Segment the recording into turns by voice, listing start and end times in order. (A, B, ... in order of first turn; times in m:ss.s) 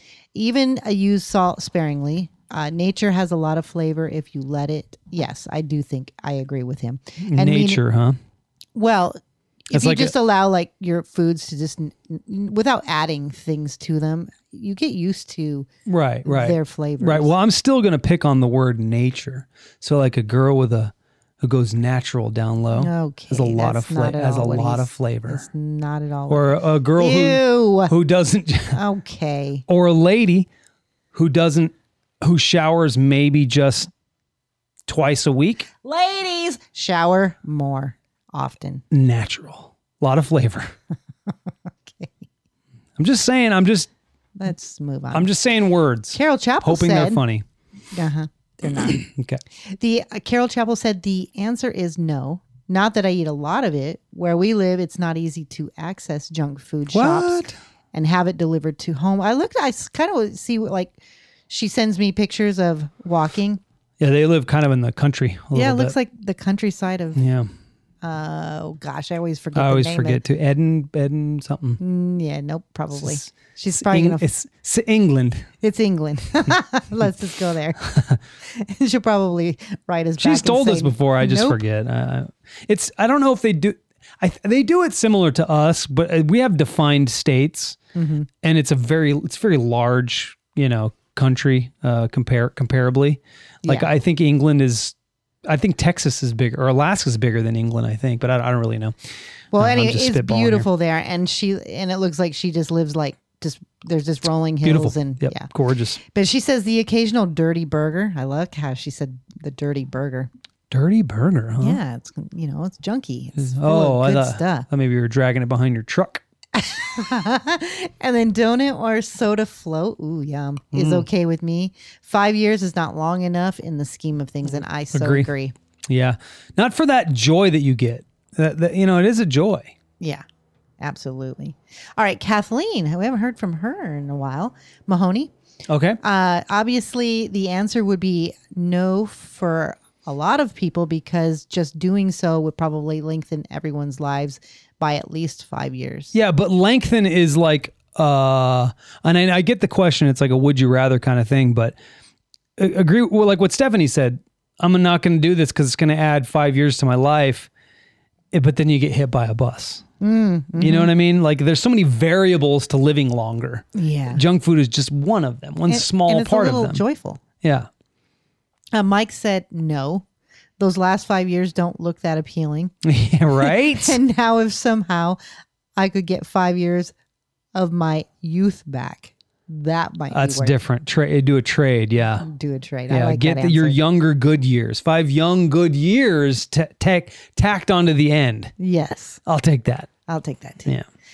0:00.3-0:07.8 A
0:07.2-0:08.2 B
0:08.7-0:15.7 A
0:09.7-0:10.1 B
0:15.8-0:25.4 B
0:16.2-0:17.3 A
0:22.7-0:27.9 A
0:26.3-0:28.8 B
0:28.7-0:29.6 A
0:29.7-0:30.5 B
0:31.1-0:33.9 B
0:34.9-0:35.7 B
0:35.8-0:38.8 A
0:38.9-0:40.7 B
0:41.8-0:42.2 A
0:43.0-0:43.9 B
0:44.4-0:45.3 A
0:45.1-0:47.4 B
0:46.1-0:47.2 A
0:47.9-0:49.0 A
0:48.8-0:49.4 B
0:49.7-0:57.4 A
0:56.9-0:57.6 B
0:57.9-1:01.0 A
1:01.5-1:03.6 A
1:04.0-1:06.0 B
1:05.5-1:07.2 A
1:07.2-1:07.5 B
1:08.0-1:10.2 A
1:09.5-1:11.8 B
1:11.8-1:14.2 A
1:12.9-1:15.5 B
1:15.6-1:17.9 A
1:17.9-1:18.2 B
1:18.4-1:21.6 A
1:20.2-1:27.8 B
1:27.9-1:28.3 A
1:28.4-1:34.9 B
1:35.4-1:38.9 B
1:39.5-1:45.5 A
1:39.5-1:40.7 B
1:44.6-1:46.0 B
1:46.0-1:50.3 A
1:50.7-1:51.8 B
1:51.6-1:54.7 A
1:53.4-1:56.2 B
1:56.5-2:05.5 A
2:00.7-2:01.1 B
2:04.9-2:05.3 B
2:05.9-2:09.7 B
2:10.8-2:15.3 A
2:15.7-2:16.0 B
2:16.0-2:26.1 A
2:26.1-2:31.8 B
2:32.6-2:37.5 B
2:38.3-2:39.8 B
2:40.0-2:40.9 A
2:40.6-2:46.8 B
2:43.7-2:44.2 A
2:45.7-2:47.2 A
2:47.4-2:47.7 B
2:48.7-2:50.0 A
2:50.6-2:52.7 A
2:52.8-2:54.0 B
2:53.4-2:55.2 A
2:55.8-2:56.9 A
2:57.5-3:00.5 A
3:00.1-3:02.2 B
3:02.2-3:03.8 A
3:02.9-3:08.5 B
3:08.6-3:09.2 A
3:09.2-3:09.9 B
3:10.1-3:10.8 A